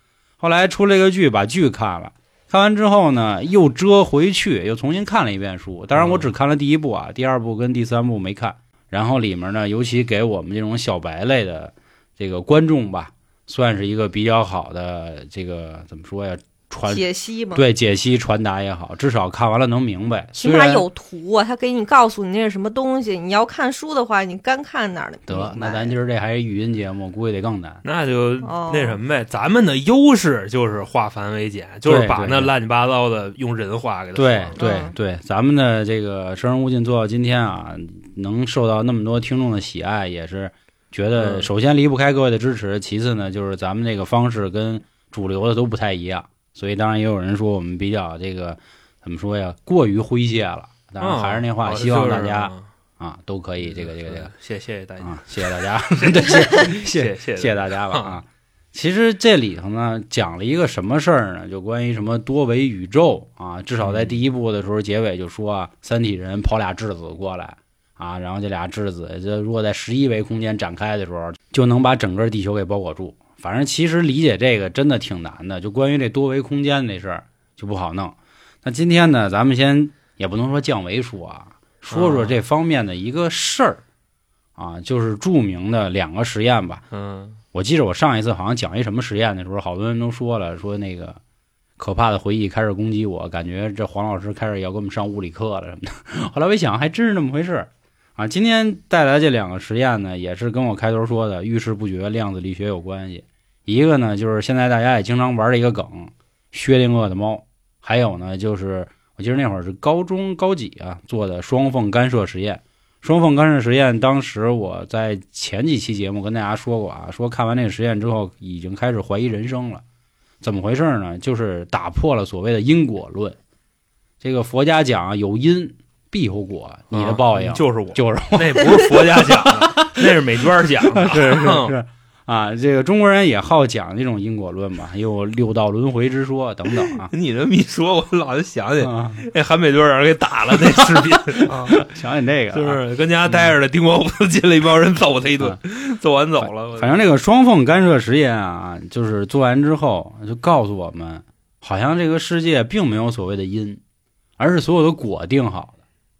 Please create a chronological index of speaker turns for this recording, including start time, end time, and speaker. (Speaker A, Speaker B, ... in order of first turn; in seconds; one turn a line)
Speaker A: 0.4-17.0
Speaker B: 5.9-6.3
Speaker C: 16.9-17.6
Speaker A: 17.5-20.8
Speaker C: 20.4-25.9
Speaker A: 25.3-27.8
Speaker B: 27.8-34.6
Speaker C: 28.4-29.0
Speaker A: 31.9-32.5
Speaker A: 34.1-54.3
Speaker C: 34.6-34.9
Speaker B: 41.2-41.5
Speaker B: 51.0-52.6
Speaker B: 53.6-58.2
Speaker A: 55.0-83.8
Speaker B: 63.8-64.2
Speaker B: 81.9-82.3
Speaker A: 84.5-86.8
Speaker B: 86.9-87.4
Speaker A: 87.5-91.2
Speaker A: 91.8-119.8
Speaker A: 120.4-123.4
Speaker A: 124.2-130.0
Speaker B: 126.9-131.7
Speaker A: 130.8-137.1
Speaker B: 136.9-141.8
Speaker A: 138.8-139.2
Speaker A: 140.6-143.5
Speaker B: 142.5-147.0
Speaker A: 146.4-153.8
Speaker A: 154.4-155.8